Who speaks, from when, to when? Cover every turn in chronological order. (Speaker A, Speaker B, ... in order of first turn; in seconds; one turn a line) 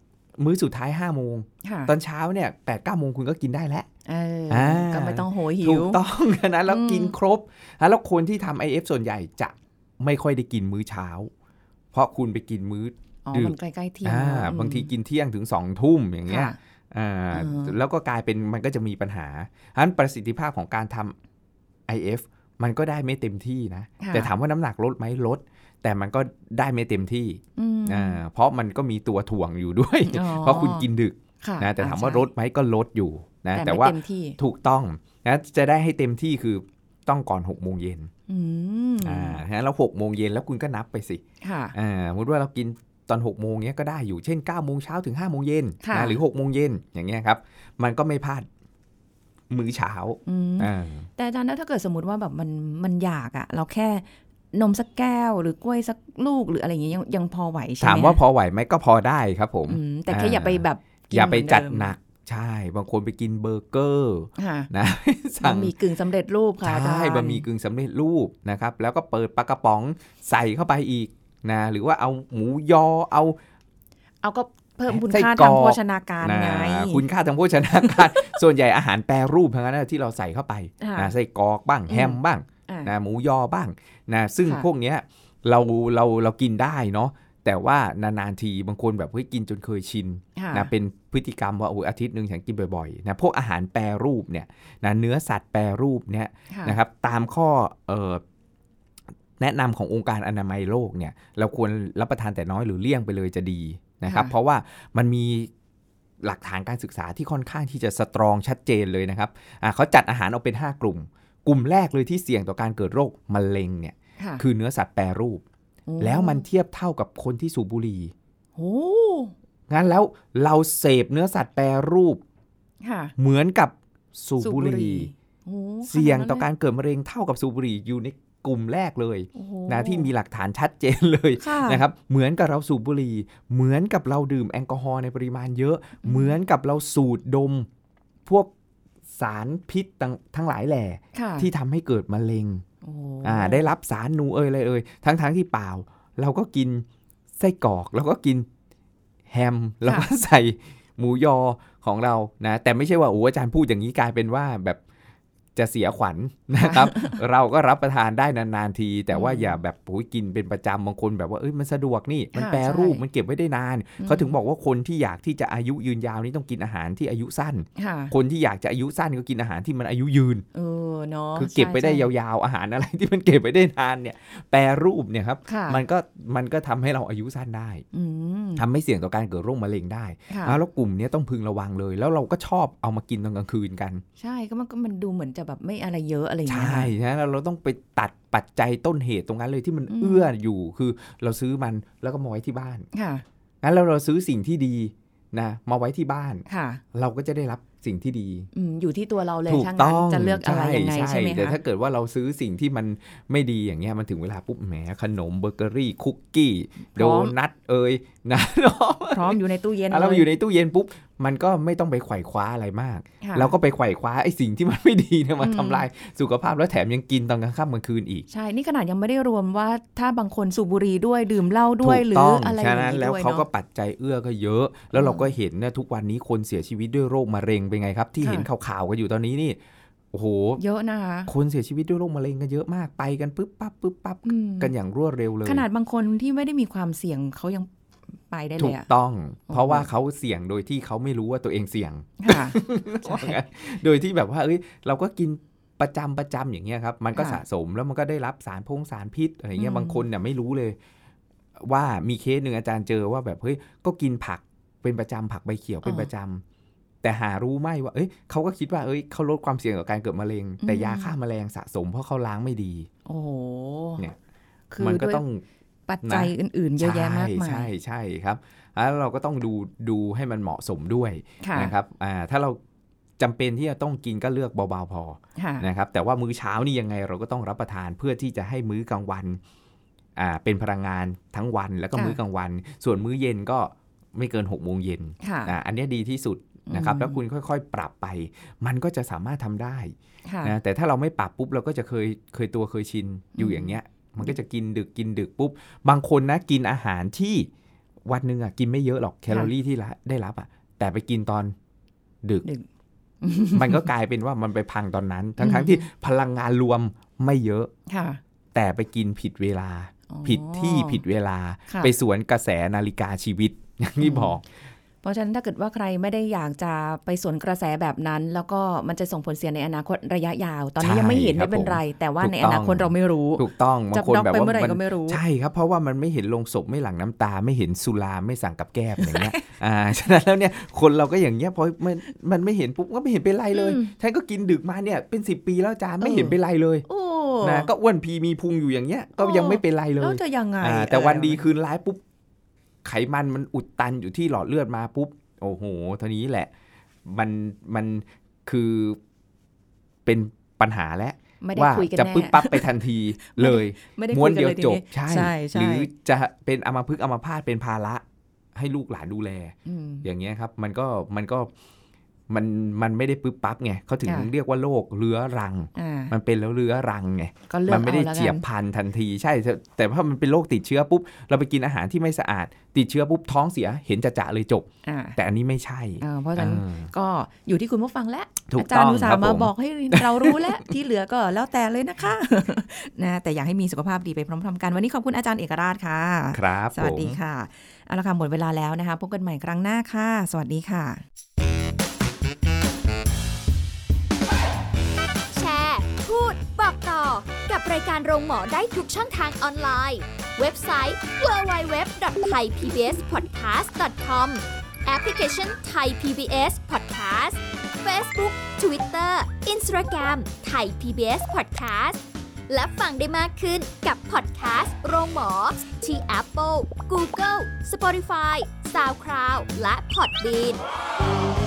Speaker A: 0.4-3.9
Speaker B: 1.6-1.9
Speaker B: 4.0-6.0
Speaker A: 4.5-11.3
Speaker B: 6.7-7.1
Speaker A: 11.9-21.1
Speaker B: 13.2-14.9
Speaker B: 16.3-16.6
Speaker B: 17.3-17.7
Speaker A: 21.9-38.1
Speaker B: 24.0-24.3
Speaker B: 27.6-28.2
Speaker B: 30.0-30.9
Speaker B: 31.4-32.3
Speaker B: 33.5-34.4
Speaker B: 38.3-39.4
Speaker A: 39.0-41.2
Speaker B: 41.4-41.7
Speaker A: 41.7-48.5
Speaker B: 45.8-46.2
Speaker A: 49.5-51.1
Speaker B: 50.2-58.2
Speaker A: 57.8-65.7
Speaker B: 59.7-61.9
Speaker B: 64.4-64.7
Speaker B: 65.4-67.4
Speaker A: 66.6-73.4
Speaker B: 74.2-77.0
Speaker A: 74.9-98.2
Speaker B: 77.8-78.4
Speaker B: 80.8-81.1
Speaker B: 81.9-82.9
Speaker B: 90.3-90.7
Speaker B: 96.5-96.8
Speaker A: 99.4-105.5
Speaker B: 104.0-104.3
Speaker A: 106.2-115.4
Speaker B: 115.9-116.4
Speaker A: 116.0-118.1
Speaker B: 118.5-119.3
Speaker A: 119.7-122.2
Speaker B: 122.8-123.1
Speaker A: 123.2-125.1
Speaker B: 124.4-126.5
Speaker A: 125.8-137.7
Speaker B: 129.3-130.1
Speaker B: 131.4-131.8
Speaker B: 136.0-136.3
Speaker A: 139.2-142.6
Speaker B: 141.1-141.5
Speaker B: 142.8-143.6
Speaker A: 143.2-146.8
Speaker A: 147.4-148.5
Speaker A: 149.3-154.8
Speaker A: 155.6-170.4
Speaker B: 156.6-157.2
Speaker B: 159.1-159.6
Speaker B: 162.3-163.0
Speaker B: 164.0-164.3
Speaker B: 167.8-168.1
Speaker B: 170.5-172.1
Speaker A: 171.3-177.8
Speaker B: 175.5-175.8
Speaker B: 177.9-178.6
Speaker A: 178.6-184.0
Speaker B: 180.3-180.6
Speaker B: 184.2-186.9
Speaker A: 186.5-192.8
Speaker B: 189.9-190.3
Speaker B: 192.9-193.2
Speaker A: 193.6-198.5
Speaker B: 196.5-196.8
Speaker B: 198.5-201.6
Speaker A: 199.5-218.3
Speaker B: 206.9-207.3
Speaker B: 209.1-210.3
Speaker B: 213.2-213.5
Speaker B: 215.4-215.8
Speaker B: 218.3-223.4
Speaker A: 221.8-229.6
Speaker B: 224.9-225.3
Speaker B: 228.2-228.5
Speaker A: 230.1-230.6
Speaker B: 230.6-231.3
Speaker A: 231.3-235.7
Speaker B: 234.2-234.7
Speaker B: 235.4-237.7
Speaker B: 238.3-238.9
Speaker A: 238.6-250.8
Speaker B: 239.5-239.9
Speaker B: 242.2-243.4
Speaker B: 247.1-247.4
Speaker B: 249.6-250.0
Speaker A: 251.6-256.4
Speaker B: 255.8-256.1
Speaker A: 257.0-262.9
Speaker B: 260.6-261.1
Speaker B: 263.1-264.0
Speaker B: 264.7-265.2
Speaker A: 264.8-265.4
Speaker B: 265.9-267.7
Speaker A: 266.0-272.6
Speaker B: 271.4-271.7
Speaker A: 273.2-279.4
Speaker B: 275.4-275.7
Speaker A: 280.2-297.5
Speaker B: 285.2-285.5
Speaker B: 286.7-287.2
Speaker B: 290.3-290.5
Speaker B: 293.4-293.8
Speaker A: 298.1-301.5
Speaker B: 303.2-303.9
Speaker A: 303.5-307.7
Speaker B: 305.4-305.8
Speaker B: 307.9-308.2
Speaker A: 308.5-314.4
Speaker B: 310.1-311.0
Speaker B: 314.0-314.4
Speaker B: 315.0-325.2
Speaker A: 320.8-336.9
Speaker B: 329.0-329.5
Speaker B: 333.5-333.9
Speaker B: 336.0-337.7
Speaker A: 337.4-342.0
Speaker B: 339.2-341.4
Speaker A: 342.8-346.5
Speaker A: 347.1-349.0
Speaker A: 350.1-358.0
Speaker B: 351.4-352.7
Speaker B: 353.2-355.9
Speaker A: 358.5-361.5
Speaker B: 359.6-360.1
Speaker A: 362.3-376.9
Speaker B: 365.8-366.1
Speaker B: 367.5-368.4
Speaker B: 374.8-375.2
Speaker B: 376.0-391.0
Speaker A: 378.5-380.6
Speaker A: 386.3-387.2
Speaker C: 395.3-420.6